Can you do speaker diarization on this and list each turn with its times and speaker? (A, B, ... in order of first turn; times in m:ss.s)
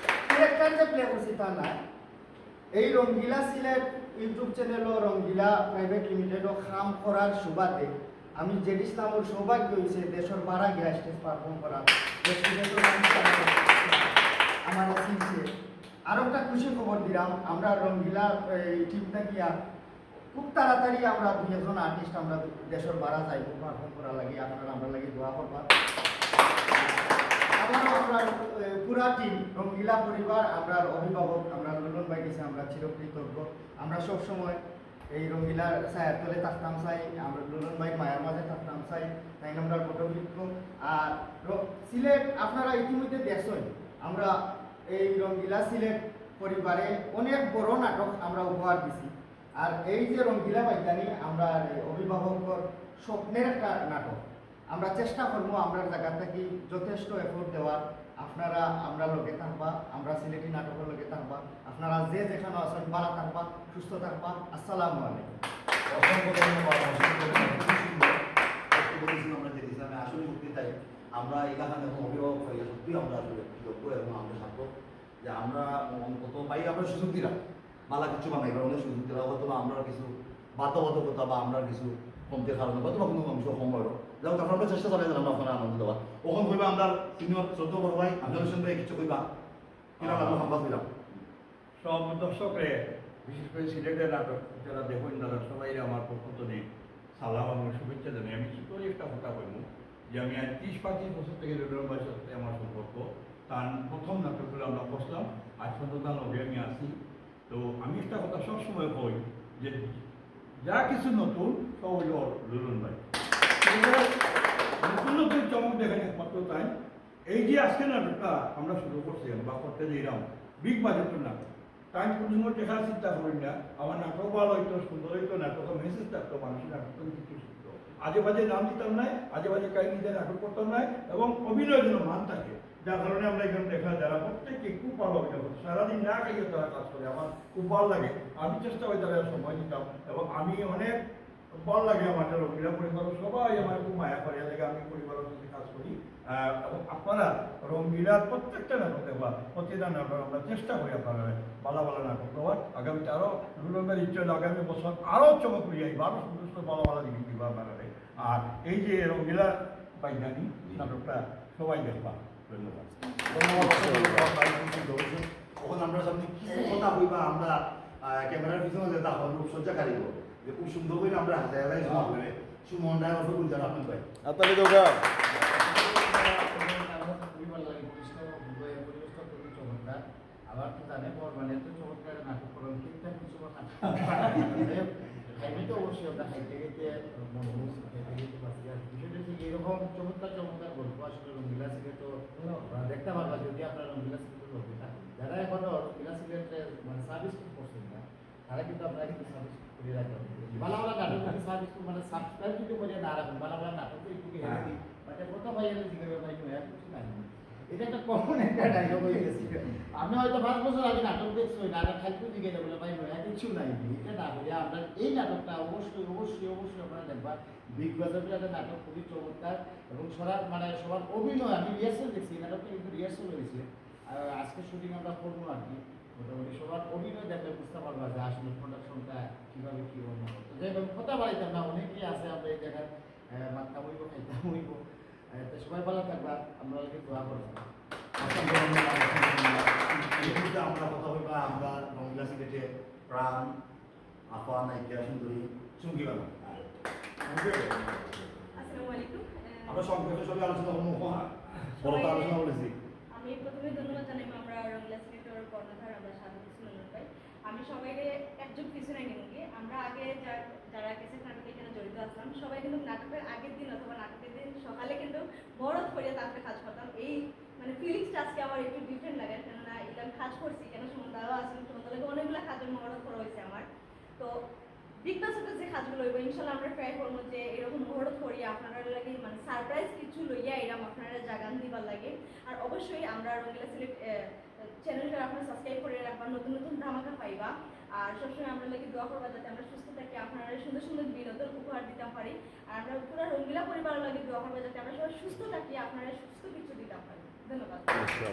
0:00.2-0:01.8 A
0:02.7-0:15.4 A
0:16.1-0:19.5 A
0:20.3-0:25.7 A
0:26.7-0:27.0 A
0:27.5-0:34.6 A
0:35.1-0:44.3 A
0:44.9-0:54.2 A
0:54.7-1:05.3 A
1:05.9-1:08.2 B
1:08.7-1:14.7 B
1:15.2-1:17.4 B
1:17.9-1:29.3 B
1:30.0-1:30.5 C
1:30.0-1:30.9 B
1:31.8-1:47.0 C
1:47.5-1:50.0 C
1:50.6-1:53.0 C
1:53.6-1:54.1 C
1:54.8-1:56.7 C
1:57.3-2:21.0 C
2:21.5-2:42.9 C
2:43.3-2:54.1 B
2:55.3-3:54.8 D
3:55.3-3:57.6 D
3:58.2-4:03.6 B
4:04.3-4:06.6 B
4:08.5-4:09.8 E
4:09.7-4:12.7 B
4:11.8-4:12.4 E
4:13.1-4:33.6 E
4:35.0-4:44.0 E
4:44.8-4:58.1 E